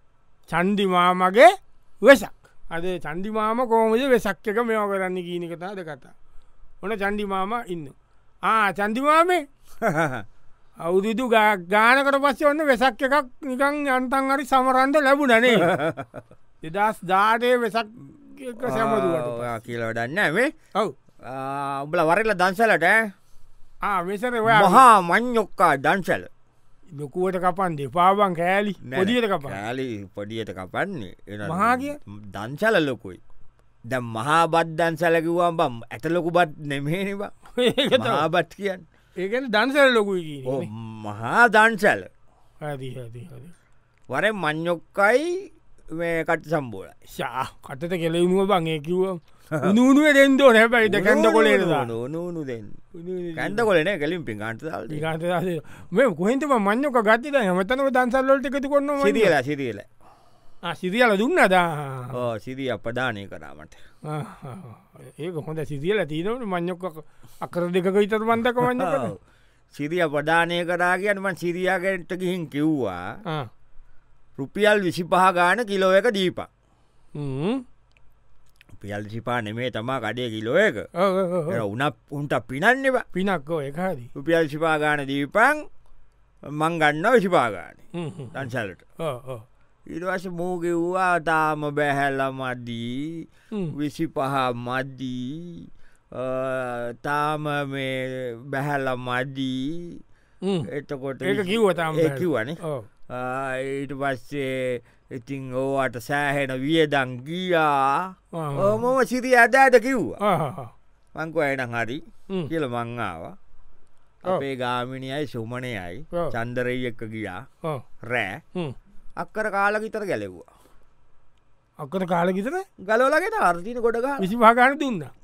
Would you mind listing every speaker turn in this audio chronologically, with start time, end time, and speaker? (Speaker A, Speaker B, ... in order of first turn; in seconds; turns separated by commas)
Speaker A: 0.5-1.5, Speaker A: 2.0-6.1, Speaker A: 6.8-9.4, Speaker B: 9.8-10.2, Speaker A: 10.8-15.7, Speaker B: 15.5-16.2, Speaker A: 16.6-19.5, Speaker B: 18.6-20.5, Speaker B: 21.2-23.1, Speaker A: 23.8-24.8, Speaker B: 24.5-26.3, Speaker A: 26.9-29.6, Speaker B: 28.8-33.2, Speaker A: 31.4-32.0, Speaker B: 33.9-37.3, Speaker A: 37.6-38.2, Speaker B: 38.0-38.9, Speaker A: 39.2-40.7, Speaker B: 40.5-42.1, Speaker A: 42.6-43.5, Speaker B: 44.1-47.0, Speaker A: 47.1-51.9, Speaker B: 50.8-52.8, Speaker A: 53.0-53.7, Speaker B: 53.4-55.0, Speaker A: 54.9-59.3, Speaker B: 59.0-59.9, Speaker A: 60.6-62.2, Speaker B: 62.1-63.8, Speaker A: 64.1-69.1, Speaker B: 68.6-69.2, Speaker B: 69.7-73.1, Speaker B: 74.4-76.5, Speaker A: 77.2-77.6, Speaker B: 78.8-80.9, Speaker A: 81.0-81.6, Speaker B: 81.5-83.0, Speaker A: 83.1-84.1, Speaker B: 84.2-85.7, Speaker B: 86.5-87.8, Speaker A: 88.0-88.5, Speaker B: 88.3-88.8, Speaker A: 89.0-89.5, Speaker B: 89.9-100.0, Speaker A: 100.4-100.7, Speaker B: 100.7-110.2, Speaker A: 101.2-102.9, Speaker A: 108.3-108.9, Speaker A: 110.2-110.7, Speaker B: 111.2-113.3, Speaker B: 114.2-117.4, Speaker B: 118.0-118.4, Speaker B: 119.2-120.5, Speaker A: 121.8-122.7, Speaker B: 122.8-124.3, Speaker A: 124.2-125.1